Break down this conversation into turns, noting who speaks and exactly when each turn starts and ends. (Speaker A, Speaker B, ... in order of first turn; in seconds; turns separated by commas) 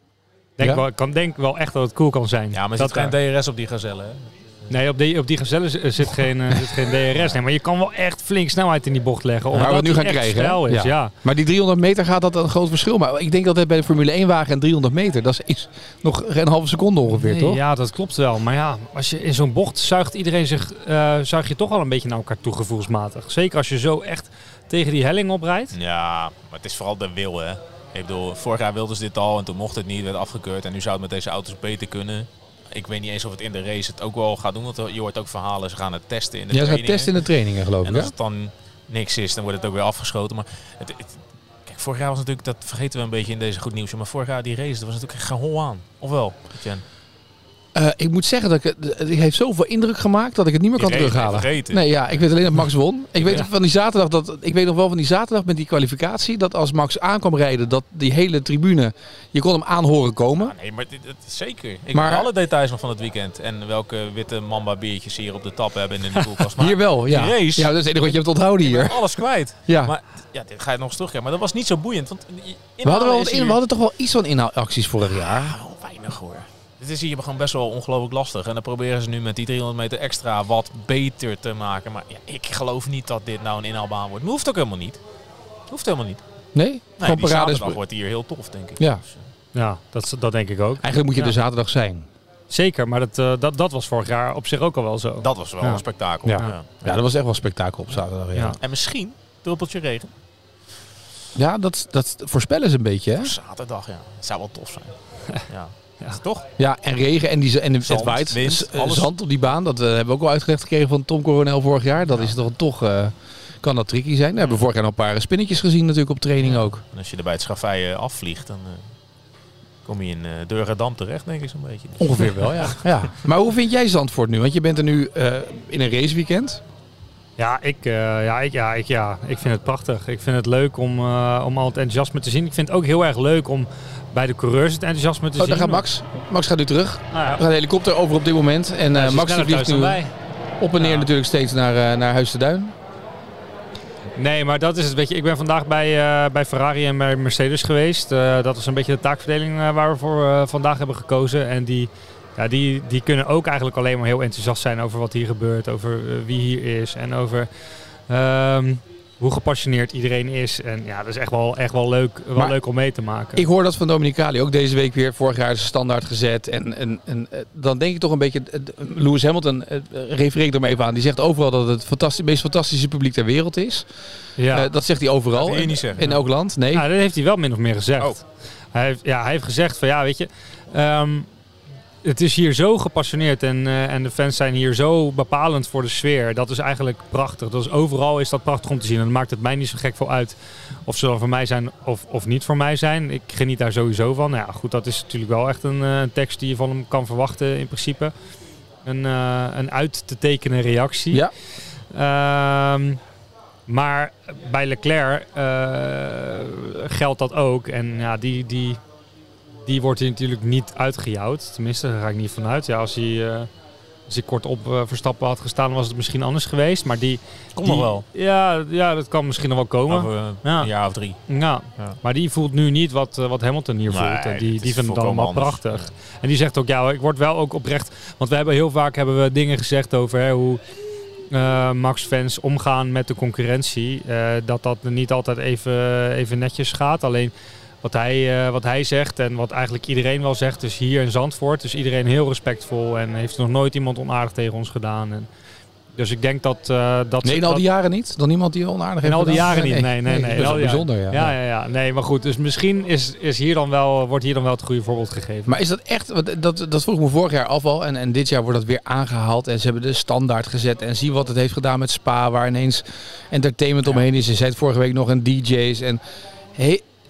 Speaker A: 0.6-3.1, Speaker B: 2.5-4.7, Speaker A: 4.7-11.1, Speaker B: 7.1-7.4, Speaker C: 9.5-17.6, Speaker A: 17.2-25.8, Speaker B: 25.7-37.2, Speaker C: 36.5-38.1, Speaker B: 37.8-46.8, Speaker C: 47.7-60.5, Speaker B: 50.8-52.3, Speaker B: 60.4-73.6, Speaker C: 61.9-62.3, Speaker C: 66.5-69.0, Speaker C: 69.7-69.9, Speaker C: 72.8-75.5, Speaker B: 75.0-85.0, Speaker B: 85.7-86.2, Speaker C: 86.5-87.8, Speaker B: 87.0-89.2, Speaker A: 89.5-91.3, Speaker C: 90.8-92.1, Speaker A: 92.5-95.8, Speaker B: 95.2-97.0, Speaker C: 96.2-98.6, Speaker B: 98.6-100.1, Speaker C: 101.3-103.3, Speaker B: 103.2-106.5, Speaker C: 106.6-116.8, Speaker B: 107.8-109.1, Speaker B: 116.4-118.9, Speaker B: 119.8-122.8, Speaker C: 122.0-126.6, Speaker A: 127.4-135.8, Speaker C: 135.4-140.0, Speaker A: 137.1-137.4, Speaker A: 138.9-140.1, Speaker C: 140.6-142.7, Speaker A: 140.8-141.1, Speaker A: 144.2-157.5, Speaker A: 158.1-163.4, Speaker C: 163.3-173.9, Speaker A: 174.4-174.7, Speaker C: 174.5-176.8, Speaker B: 175.3-176.0, Speaker A: 176.7-181.3, Speaker A: 182.0-198.1, Speaker A: 198.8-201.2, Speaker A: 201.9-203.0, Speaker A: 203.7-208.8, Speaker A: 209.6-213.5, Speaker A: 214.1-220.7, Speaker B: 217.5-218.0, Speaker B: 219.9-221.2, Speaker A: 221.3-230.6, Speaker B: 223.9-225.9, Speaker A: 231.3-245.3, Speaker A: 245.9-247.6, Speaker C: 247.2-251.3, Speaker A: 249.0-255.6, Speaker C: 255.5-266.0, Speaker C: 266.5-266.8